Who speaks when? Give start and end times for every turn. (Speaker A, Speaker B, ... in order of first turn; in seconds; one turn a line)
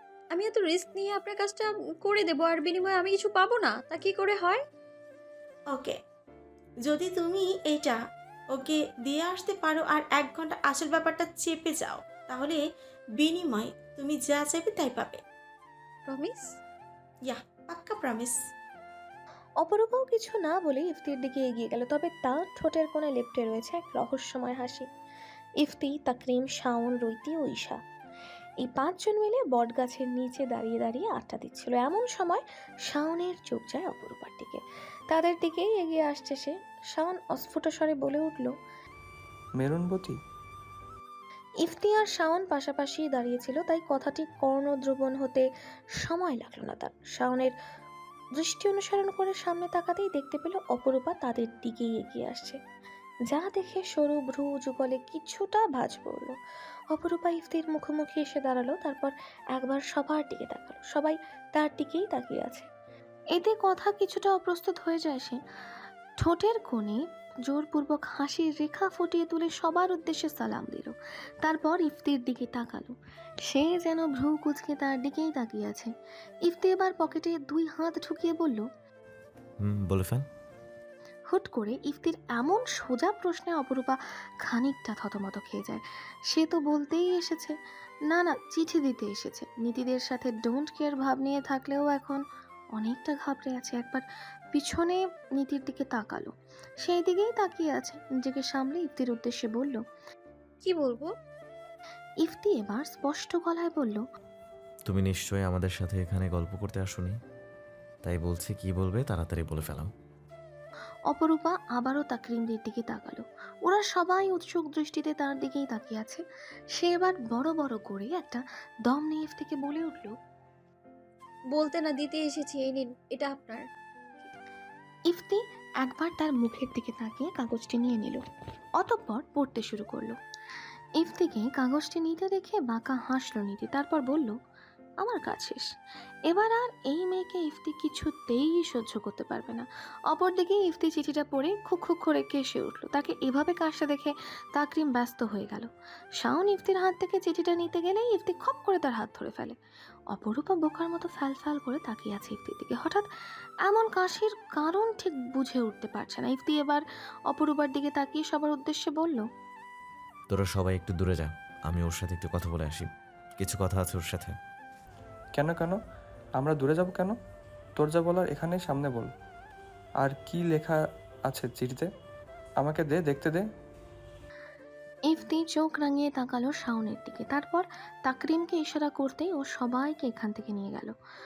Speaker A: 0.3-4.6
Speaker B: 5.7-6.0
Speaker B: 6.8-12.6
Speaker B: 13.2-15.2
Speaker A: 16.1-16.5
Speaker B: 17.2-18.4
Speaker C: 19.6-24.9
Speaker C: 25.6-27.8
Speaker C: 28.6-38.5
Speaker D: 39.6-40.1
Speaker C: 41.6-45.5
Speaker C: 46.0-47.5
Speaker C: 48.4-52.6
Speaker C: 53.3-56.4
Speaker C: 56.9-62.7
Speaker C: 63.3-65.4
Speaker C: 66.2-72.9
Speaker C: 73.4-75.9
Speaker C: 76.5-78.6
Speaker E: 79.6-80.2
Speaker C: 81.3-87.5
Speaker C: 88.1-92.2
Speaker C: 92.8-96.3
Speaker C: 96.8-99.8
Speaker A: 100.6-101.1
Speaker C: 102.2-104.0
Speaker E: 104.9-107.2
Speaker E: 108.0-109.9
Speaker C: 111.1-116.2
Speaker C: 116.7-120.1
Speaker A: 121.5-123.6
Speaker C: 125.1-128.2
Speaker C: 128.8-130.2
Speaker C: 131.0-134.3
Speaker C: 135.0-135.7
Speaker C: 136.3-149.6
Speaker C: 150.1-153.0
Speaker C: 153.6-159.2
Speaker E: 160.3-164.3
Speaker D: 165.4-165.7
Speaker D: 166.4-167.1
Speaker D: 167.8-169.1
Speaker D: 170.0-170.8
Speaker D: 171.3-171.8
Speaker D: 172.6-173.4
Speaker C: 175.1-180.9